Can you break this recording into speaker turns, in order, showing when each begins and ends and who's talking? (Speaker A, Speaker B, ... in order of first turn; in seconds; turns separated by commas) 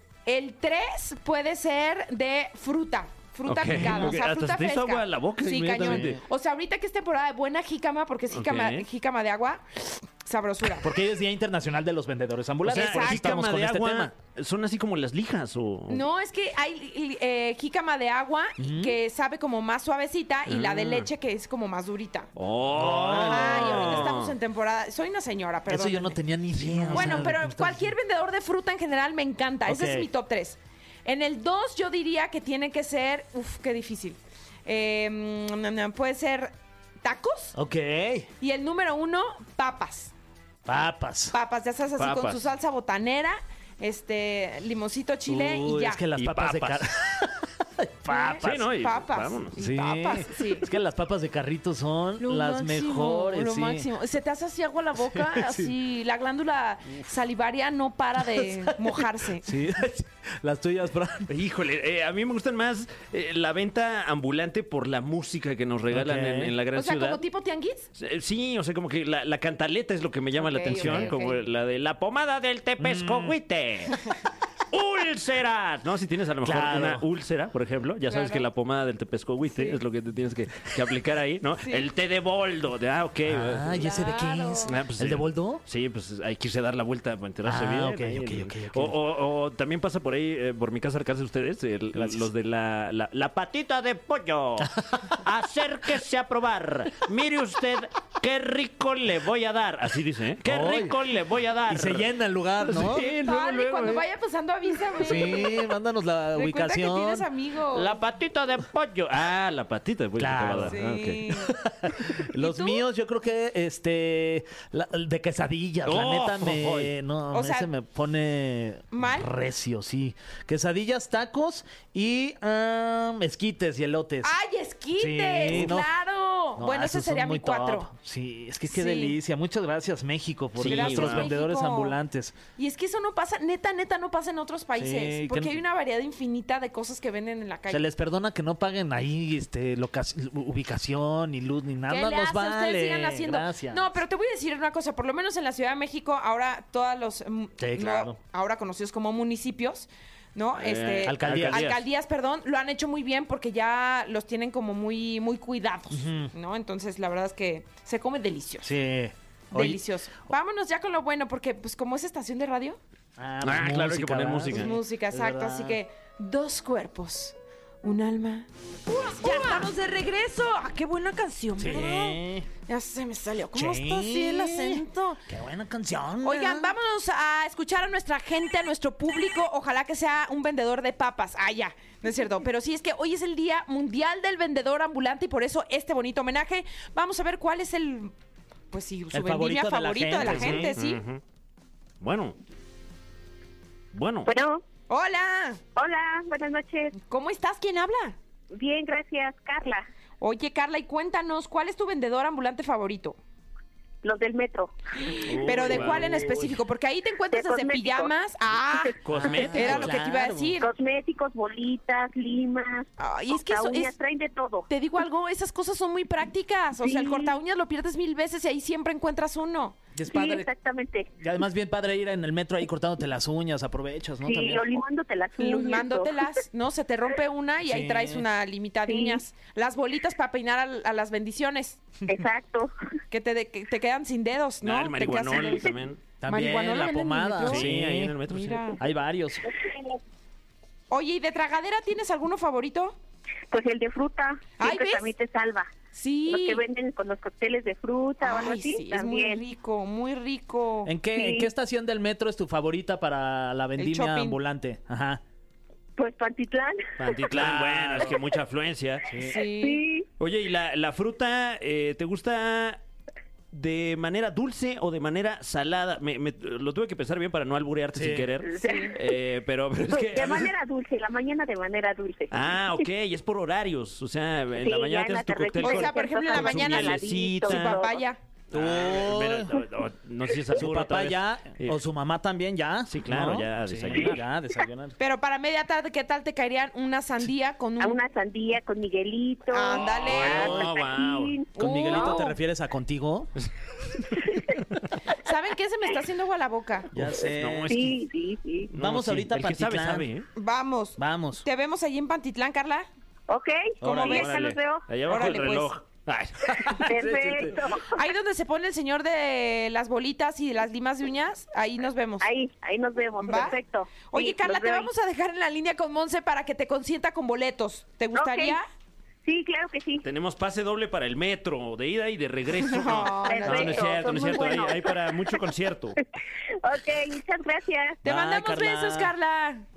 Speaker A: 0.2-10.9, Speaker B: 3.5-6.2, Speaker C: 3.7-4.1, Speaker C: 5.8-6.2, Speaker B: 8.3-8.9, Speaker C: 10.8-14.1, Speaker A: 12.6-13.5, Speaker B: 12.6-16.0, Speaker A: 15.9-22.3, Speaker C: 18.6-19.0, Speaker B: 20.5-21.1, Speaker B: 22.4-24.4, Speaker C: 22.7-24.1, Speaker A: 23.1-26.2, Speaker C: 25.7-27.9, Speaker B: 26.6-27.3, Speaker A: 26.9-37.5, Speaker C: 29.6-30.1, Speaker C: 37.5-38.3, Speaker A: 38.4-40.1, Speaker C: 40.6-41.3, Speaker A: 41.3-46.0, Speaker B: 42.0-42.4, Speaker C: 45.2-48.7, Speaker B: 46.1-46.9, Speaker A: 48.1-50.7, Speaker B: 48.4-49.6, Speaker C: 49.6-53.9, Speaker A: 52.2-59.5, Speaker C: 55.1-55.7, Speaker C: 58.4-61.3, Speaker B: 61.3-67.2, Speaker C: 65.9-66.5, Speaker A: 66.7-67.9, Speaker B: 68.0-74.0, Speaker A: 70.4-71.4, Speaker C: 70.7-71.1, Speaker C: 72.8-73.3, Speaker B: 74.7-83.8, Speaker C: 76.4-77.0, Speaker A: 78.1-78.4, Speaker C: 83.2-85.6, Speaker A: 83.7-84.8, Speaker B: 84.7-102.1, Speaker C: 87.4-89.0, Speaker C: 91.9-92.3, Speaker C: 94.6-95.2, Speaker C: 100.4-101.0, Speaker C: 101.7-103.0, Speaker B: 102.6-104.0, Speaker A: 102.8-105.7, Speaker C: 105.0-107.3, Speaker A: 106.3-107.9, Speaker B: 107.7-111.4, Speaker C: 110.2-110.8, Speaker A: 110.7-111.5, Speaker C: 111.5-124.3, Speaker A: 112.3-112.8, Speaker B: 115.8-116.9, Speaker A: 117.3-117.7, Speaker A: 118.9-119.3, Speaker A: 124.2-127.9, Speaker C: 125.0-125.9, Speaker C: 126.6-132.4, Speaker A: 128.7-129.2, Speaker B: 130.6-131.3, Speaker A: 130.7-131.9, Speaker A: 132.6-137.8, Speaker C: 134.8-135.6, Speaker C: 137.7-143.8, Speaker A: 141.9-158.7, Speaker C: 147.6-148.2, Speaker B: 150.6-151.8, Speaker C: 151.0-151.7, Speaker C: 155.9-156.3, Speaker C: 158.6-159.8, Speaker A: 159.5-162.8, Speaker C: 163.2-165.8, Speaker B: 163.4-164.7, Speaker A: 164.5-175.2, Speaker C: 171.6-172.5, Speaker C: 173.5-176.7, Speaker A: 176.2-188.1, Speaker A: 188.7-191.0, Speaker C: 189.1-190.7, Speaker B: 190.2-191.2, Speaker B: 192.0-192.4, Speaker B: 193.9-194.3, Speaker D: 194.2-194.6, Speaker A: 194.9-195.6, Speaker D: 195.8-196.9, Speaker A: 196.9-198.2, Speaker D: 198.6-199.8, Speaker A: 200.2-203.2, Speaker D: 204.0-205.5, Speaker A: 205.0-210.7, Speaker B: 205.2-206.5, Speaker D: 207.3-208.1, Speaker B: 209.0-210.0, Speaker C: 209.1-210.6, Speaker D: 210.6-214.7, Speaker A: 213.0-213.9, Speaker A: 214.7-219.8, Speaker D: 216.8-217.3, Speaker C: 219.9-220.5, Speaker D: 220.1-221.1, Speaker C: 221.2-224.7, Speaker D: 224.2-226.3, Speaker A: 225.4-231.8, Speaker C: 227.6-228.2, Speaker D: 228.8-229.2, Speaker D: 232.1-232.7, Speaker A: 233.1-237.7, Speaker B: 234.6-236.0, Speaker C: 236.2-238.2, Speaker B: 237.4-238.8, Speaker A: 238.2-238.8, Speaker C: 238.8-239.5, Speaker A: 240.9-242.9, Speaker D: 243.5-245.7, Speaker A: 244.6-245.1, Speaker A: 245.9-246.6, Speaker D: 246.3-249.4, Speaker A: 248.2-250.9, Speaker C: 250.8-255.2, Speaker D: 251.1-251.5, Speaker A: 253.8-254.4, Speaker D: 256.0-257.1, Speaker B: 257.0-259.1, Speaker C: 257.3-258.2, Speaker C: 259.1-259.4, Speaker A: 259.2-259.8, Speaker D: 259.4-260.1, Speaker B: 260.2-262.8, Speaker B: 263.5-270.5, Speaker C: 267.9-268.3, Speaker D: 268.5-269.0, Speaker A: 268.6-268.9, Speaker D: 269.9-272.4, Speaker B: 272.3-277.8, Speaker D: 274.6-278.0, Speaker A: 275.6-278.2, Speaker B: 278.5-281.8, Speaker C: 278.5-279.6, Speaker C: 280.5-285.0, Speaker B: 282.9-284.2, Speaker A: 285.0-288.0, Speaker D: 287.8-292.1, Speaker A: 289.5-290.7, Speaker B: 289.9-291.4, Speaker A: 291.6-292.4, Speaker C: 291.6-293.3, Speaker D: 294.2-294.6, Speaker A: 295.1-296.9, Speaker C: 296.9-297.9, Speaker B: 296.9-298.0, Speaker D: 297.7-298.7, Speaker B: 298.7-300.3, Speaker C: 298.7-300.1, Speaker A: 300.4-302.9, Speaker C: 301.0-301.4, Speaker D: 303.3-304.8, Speaker C: 303.8-304.3, Speaker A: 303.9-304.3, Speaker B: 303.9-307.1, Speaker A: 305.1-305.7, Speaker D: 306.7-308.0, Speaker C: 306.9-307.6, Speaker A: 307.9-312.3, Speaker D: 312.2-314.9, Speaker A: 313.2-318.6, Speaker D: 318.1-318.6, Speaker D: 319.2-320.0, Speaker B: 320.0-326.0, Speaker A: 322.6-323.9, Speaker D: 323.2-325.4, Speaker D: 326.6-328.0, Speaker C: 328.0-329.1, Speaker A: 328.0-329.6